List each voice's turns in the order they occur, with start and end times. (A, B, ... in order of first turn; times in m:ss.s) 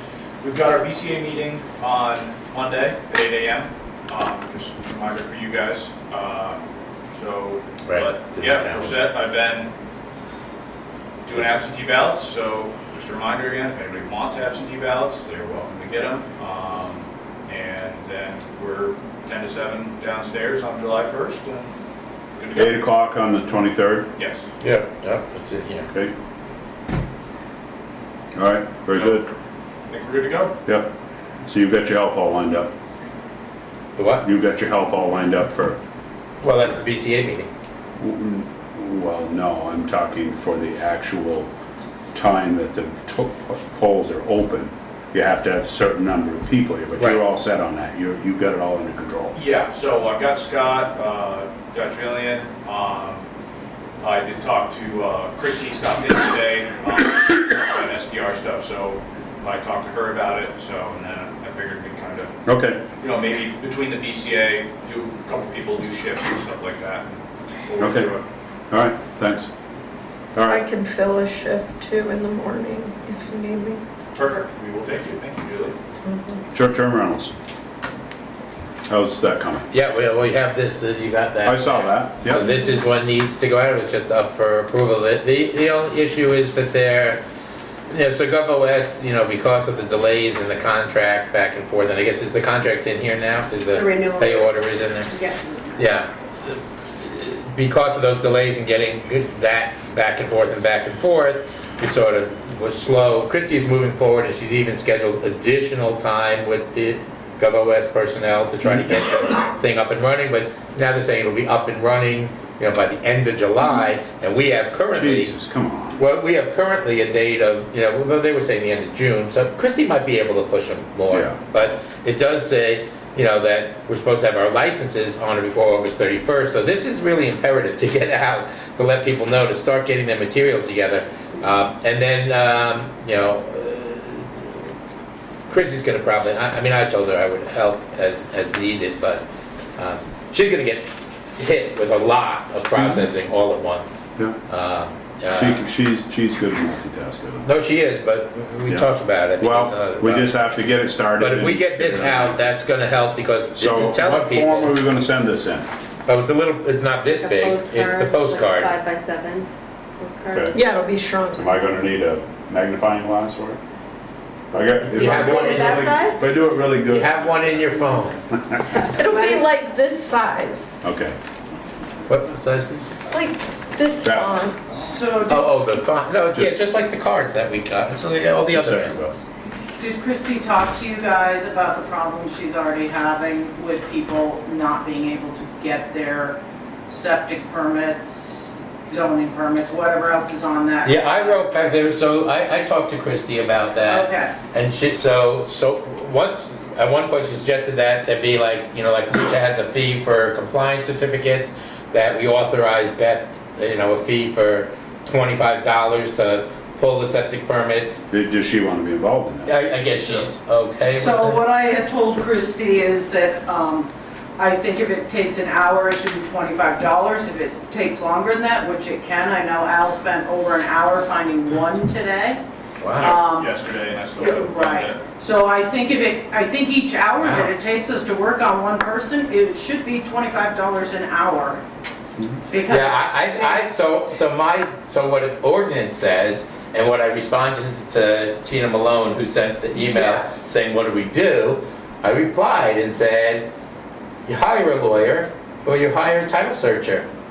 0:00.4-0:06.6 A
0:07.1-0:09.7 A
0:07.9-0:09.0 B
0:11.2-0:21.7 A
0:22.4-0:22.9 A
0:22.6-0:24.1 C
0:24.2-0:24.4 A
0:24.6-0:25.9 B
0:28.3-0:29.3 C
0:29.9-0:30.6 A
0:30.7-0:30.9 C
0:31.5-0:32.7 C
0:34.0-0:34.3 B
0:34.2-0:35.8 C
0:36.4-0:37.5 B
0:38.0-0:41.5 C
0:42.1-0:49.4 C
0:49.3-0:53.2 A
0:54.0-1:02.3 A
1:02.5-1:02.8 C
1:03.0-1:08.2 A
1:07.8-1:08.1 C
1:08.7-1:09.5 C
1:10.3-1:10.6 C
1:10.5-1:13.8 D
1:14.2-1:15.8 A
1:16.0-1:16.4 D
1:16.5-1:17.3 C
1:18.9-1:19.7 C
1:19.7-1:27.2 B
1:21.4-1:22.5 C
1:27.9-1:35.2 B
1:33.7-1:35.4 E
1:35.8-1:55.4 B
1:54.9-1:56.0 C
1:56.0-2:14.7 B
2:01.1-2:01.4 C
2:15.5-2:19.2 B
2:19.8-2:25.6 B
2:22.8-2:23.1 C
2:25.3-2:27.5 C
2:27.4-2:30.3 B
2:29.4-2:32.4 C
2:31.2-2:34.7 B
2:33.6-2:35.7 C
2:36.1-2:38.8 B
2:37.0-2:40.6 E
2:40.3-2:40.6 C
2:40.5-2:41.6 D
2:41.4-2:43.6 C
2:44.5-2:47.3 C
2:44.6-2:46.3 E
2:44.9-2:46.0 B
2:46.8-2:48.2 B
2:48.3-2:48.6 C
2:48.8-2:49.5 E
2:49.0-2:50.8 D
2:50.8-2:51.2 C
2:52.1-2:53.1 B
2:53.1-2:54.7 D
2:54.0-2:54.5 C
2:54.7-2:55.6 F
2:55.3-2:59.2 B
2:58.5-2:59.1 C
2:59.8-3:11.9 F
3:10.8-3:28.0 B
3:13.8-3:14.4 F
3:28.1-3:29.6 C
3:29.5-3:31.4 B
3:30.8-3:42.4 F
3:42.8-3:43.2 B
3:43.0-3:45.0 A
3:43.0-3:51.6 F
3:47.2-3:47.5 B
3:52.5-3:53.9 F
3:52.7-4:03.5 B
3:59.7-4:00.5 F
4:04.3-4:07.1 B